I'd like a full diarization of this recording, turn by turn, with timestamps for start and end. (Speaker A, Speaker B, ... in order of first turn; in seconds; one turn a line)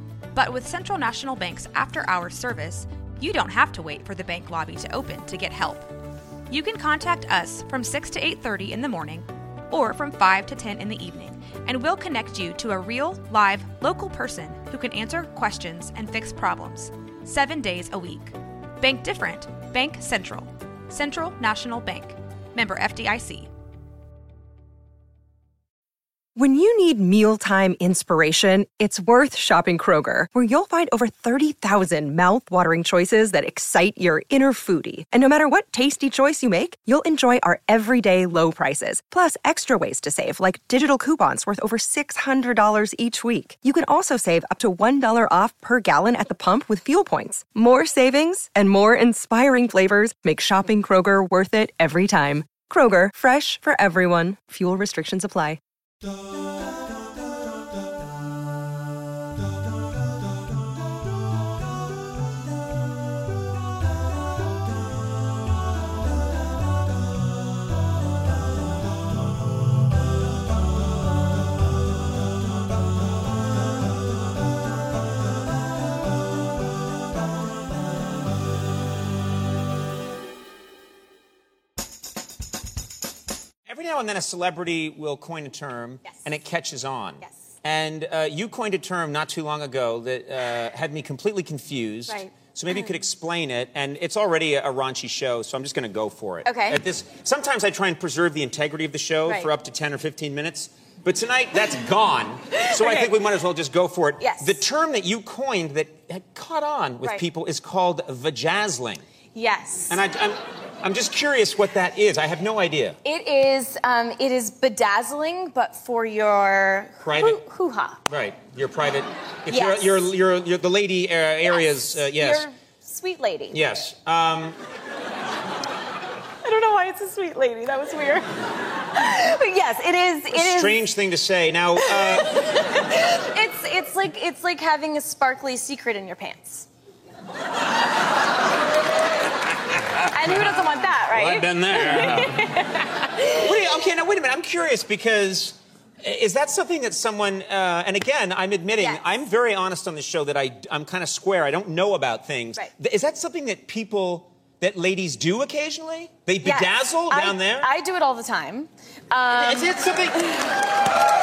Speaker A: 0.3-5.9
Speaker A: 6.5-23.5
Speaker B: 26.4-55.6
Speaker C: 83.7-109.0
Speaker D: 92.1-92.9
Speaker D: 96.4-96.8
Speaker D: 99.2-99.5
Speaker D: 102.5-103.2
Speaker D: 104.2-104.6
Speaker D: 109.3-110.0
Speaker C: 109.9-113.0
Speaker D: 113.0-118.0
Speaker C: 117.0-117.4
Speaker C: 118.1-122.5
Speaker D: 119.5-120.1
Speaker D: 121.5-123.6
Speaker C: 123.5-124.6
Speaker D: 126.4-128.3
Speaker D: 128.9-130.9
Speaker C: 130.3-132.3
Speaker D: 131.8-136.7
Speaker D: 140.1-142.8
Speaker C: 140.2-142.6
Speaker C: 143.3-157.7
Speaker D: 148.7-149.1
Speaker D: 156.4-159.8
Speaker C: 159.3-160.4